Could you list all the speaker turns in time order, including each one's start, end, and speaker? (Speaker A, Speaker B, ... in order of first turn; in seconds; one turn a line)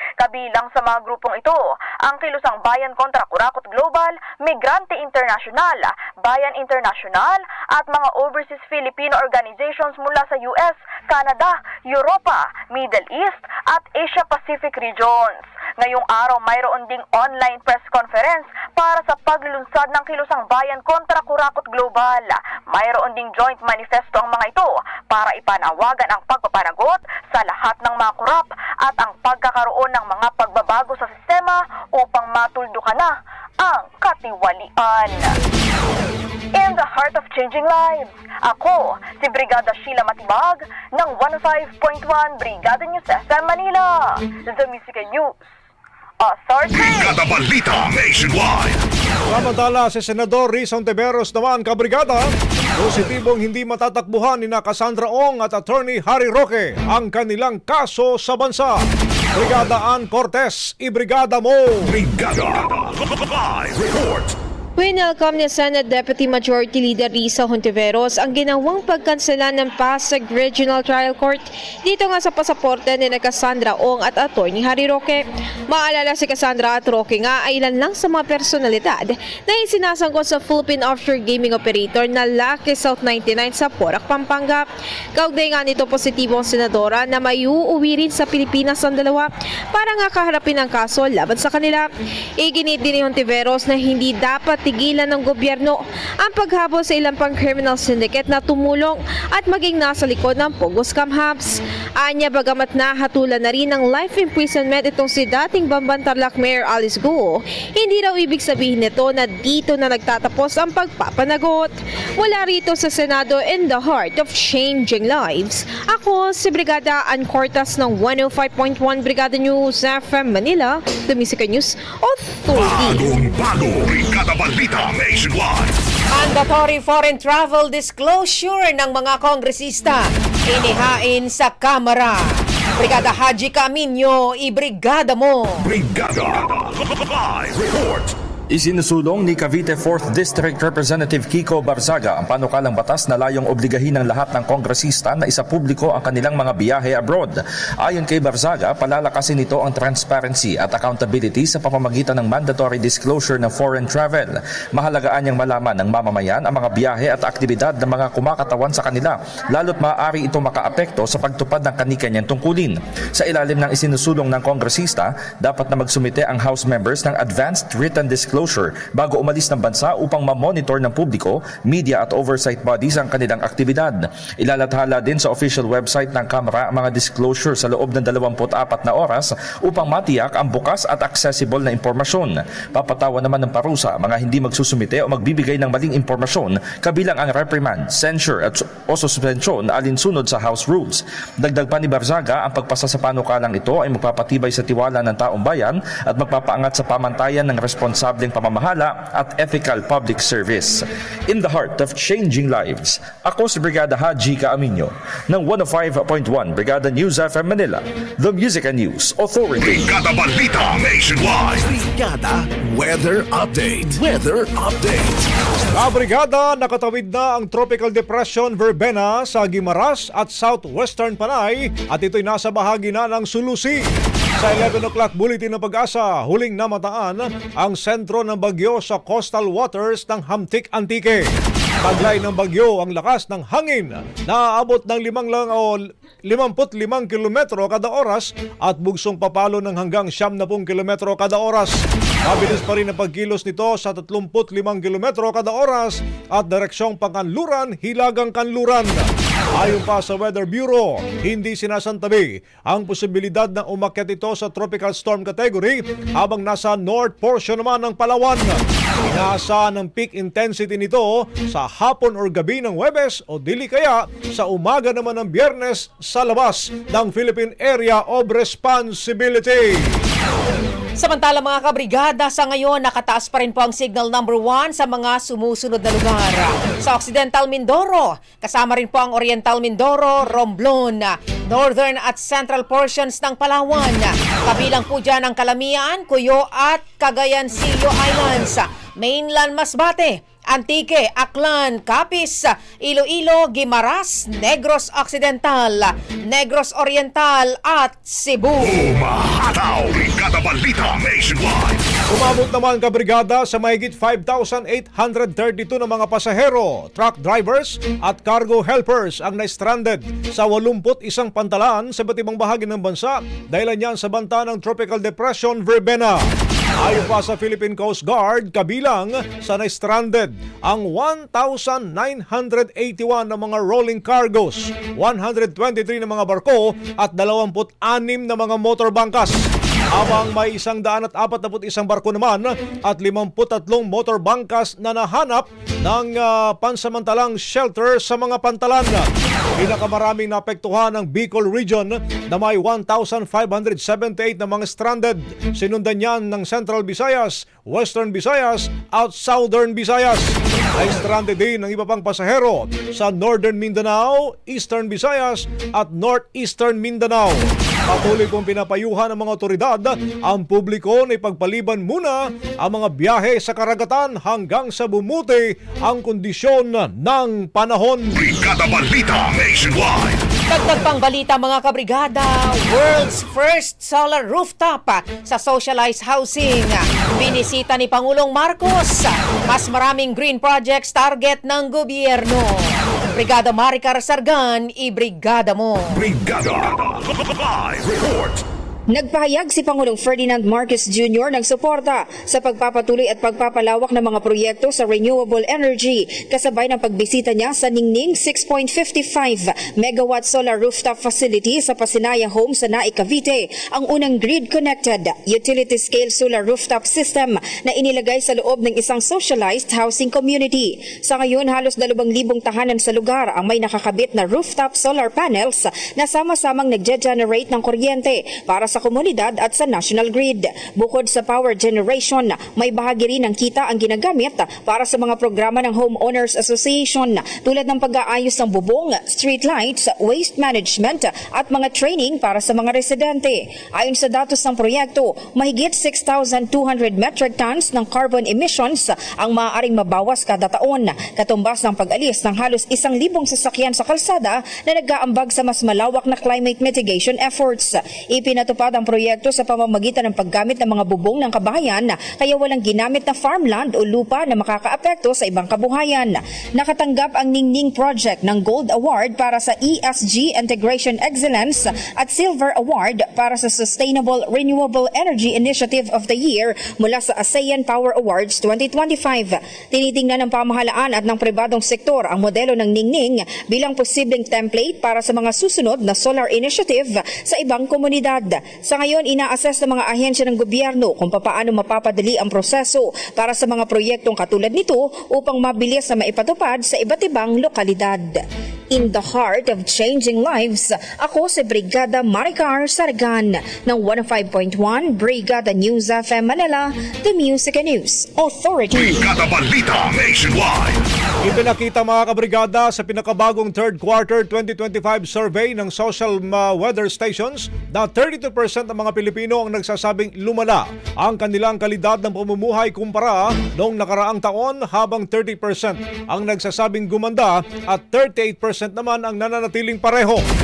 Speaker A: 0.2-35.4
Speaker A: 36.5-45.4
Speaker A: 46.2-47.2
Speaker B: 46.7-48.8
Speaker C: 49.3-58.8
Speaker C: 59.4-61.9
Speaker B: 61.9-64.3
Speaker D: 64.8-91.9
Speaker D: 92.4-123.1
Speaker B: 122.5-125.8
Speaker E: 126.1-135.7
Speaker B: 135.6-138.1
Speaker F: 138.5-209.8
Speaker B: 209.6-211.7
Speaker G: 211.6-215.3
Speaker C: 215.7-223.9
Speaker C: 224.4-231.3
Speaker C: 231.8-269.9
Speaker E: 271.0-298.9
Speaker B: 298.6-301.9
Speaker C: 302.1-316.2
Speaker C: 316.8-329.4
Speaker C: 329.9-368.1
Speaker B: 368.1-370.3
Speaker E: 370.5-386.0
Speaker B: 385.9-388.4
Speaker H: 388.9-499.1
Speaker B: 498.8-500.9
Speaker C: 501.2-520.2